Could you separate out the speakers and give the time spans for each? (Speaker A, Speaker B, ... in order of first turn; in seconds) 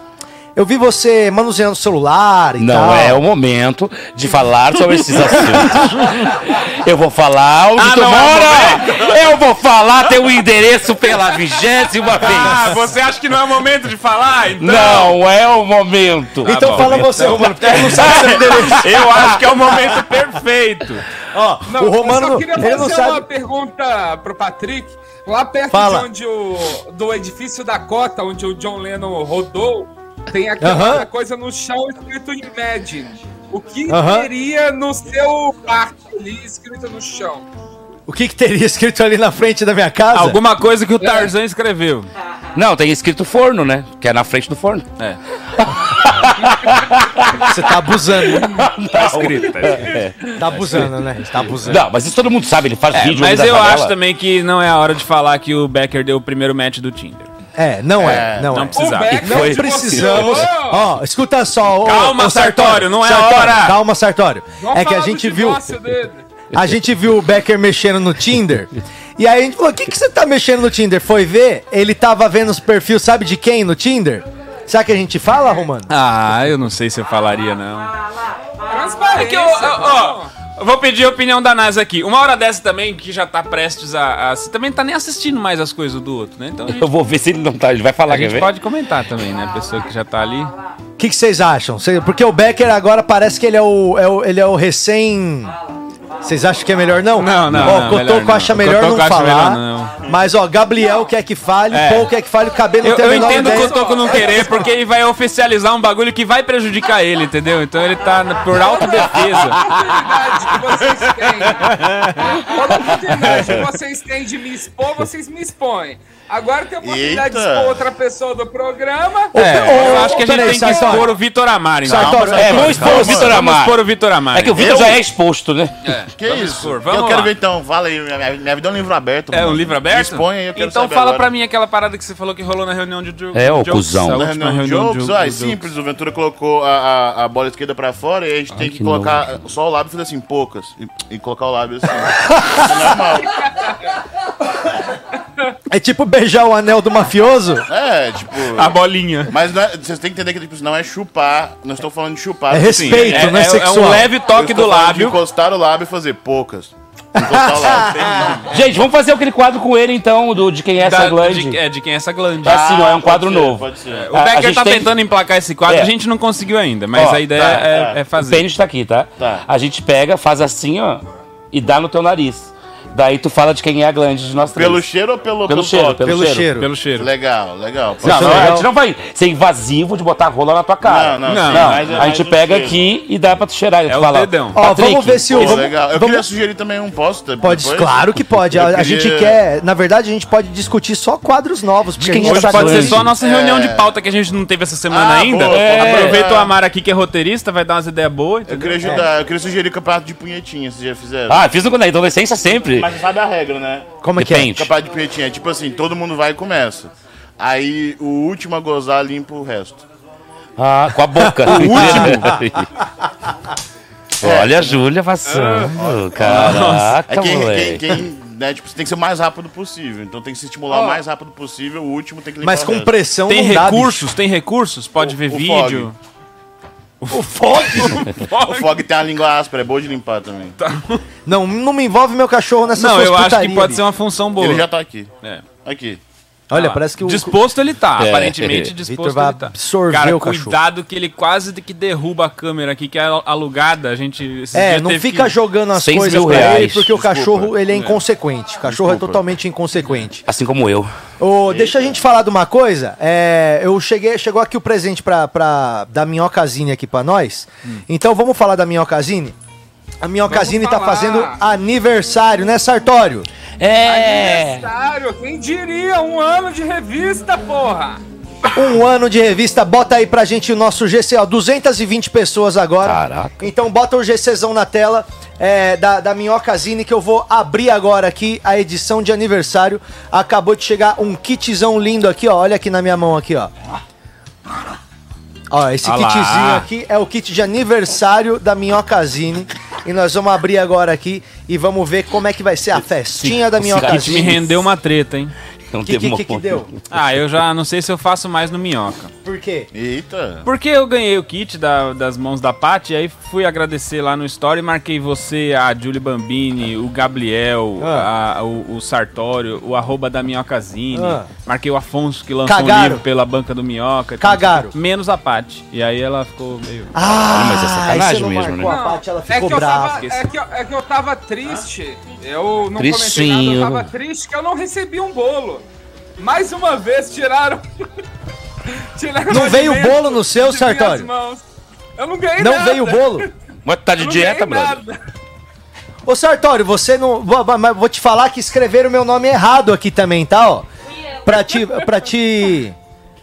Speaker A: 0.5-3.2, 5.3-6.0, 16.4-19.8, 21.3-23.2, 25.7-26.1, 30.6-31.1, 33.9-34.3, 38.1-40.4, 47.4-48.7, 50.4-51.8, 57.5-65.7, 66.5-75.9, 91.0-95.6, 96.2-104.4, 119.3-121.2, 121.8-123.0, 142.2-142.9, 145.7-147.7, 152.5-154.1, 157.2-158.4, 176.0-176.7, 178.0-178.7, 184.5-186.3, 187.4-193.0, 204.0-204.5, 211.2-212.2, 222.4-224.0, 227.1-228.0, 231.2-233.8, 236.5-237.4, 238.8-240.6, 244.5-250.2, 251.2-259.3, 260.0-263.3, 268.5-283.5, 285.5-294.6, 295.8-296.7, 299.2-299.7, 307.8-308.1, 310.9-311.3, 312.4-313.0, 314.2-314.7, 316.9-320.1, 329.3-331.1, 332.4-333.3, 336.1-340.6, 341.2-342.8
Speaker B: 2.6-12.8, 14.6-17.1, 42.5-44.8, 45.6-47.6, 48.3-50.1, 51.6-54.0, 59.2-60.3, 86.7-88.5, 97.5-97.8, 122.2-125.8, 133.3-134.3, 138.6-139.2, 158.5-161.6, 162.4-164.9, 166.9-167.7, 168.2-174.9, 175.4-176.5, 178.0-185.6, 192.0-193.1, 195.4-196.2, 201.3-202.9, 204.2-204.7, 210.6-212.7, 214.2-218.0, 238.0-238.7, 245.7-246.9, 250.2-250.9, 263.6-264.7, 272.8-273.5, 293.2-294.4, 295.7-296.8, 317.2-318.7, 322.8-323.9, 333.6-334.8
Speaker C: 7.8-9.2, 12.0-15.2, 16.4-21.0, 40.1-42.1, 48.9-50.8, 52.9-57.3, 58.5-59.5, 60.1-60.5, 61.8-63.8, 75.9-78.0, 78.9-86.9, 88.1-90.5, 97.1-100.0, 101.7-102.1, 102.8-109.8, 111.5-113.6, 119.3-124.9, 125.8-127.3, 129.3-135.7, 148.5-149.3, 152.6-155.2, 158.1-158.4, 160.8-162.7, 163.9-168.4, 176.5-177.1, 181.2-182.1, 183.9-184.6, 192.2-199.0, 211.5-212.4, 216.2-216.9, 223.3-225.9, 227.0-228.9, 230.6-231.0, 232.7-234.7, 235.2-235.5, 236.5-245.3, 285.8-286.6, 293.6-295.3, 296.9-299.1, 300.4-316.9, 319.5-320.2
Speaker D: 21.6-37.5, 58.7-60.9, 64.6-66.2, 78.7-80.3, 103.0-104.6, 108.5-120.8, 215.3-215.7, 220.7-221.0, 260.3-261.4, 263.8-268.0, 318.6-325.6, 326.2-327.7, 328.7-331.4, 332.0-333.3, 334.0-335.0
Speaker E: 58.0-58.6, 116.8-117.8, 121.8-123.4, 124.5-125.0, 126.1-131.3, 134.1-143.4, 147.7-153.4, 154.3-158.4, 162.4-164.1, 167.4-168.0, 169.2-169.4, 174.5-176.2, 177.0-178.6, 180.8-182.8, 185.3-188.0, 188.5-189.4, 193.2-193.9, 194.9-196.5, 198.4-201.4, 202.7-204.0, 204.5-209.8, 214.2-214.8, 215.8-222.9, 225.0-225.9, 228.4-230.5, 234.3-236.0, 246.5-247.7, 248.7-249.2, 251.5-251.9, 299.7-300.5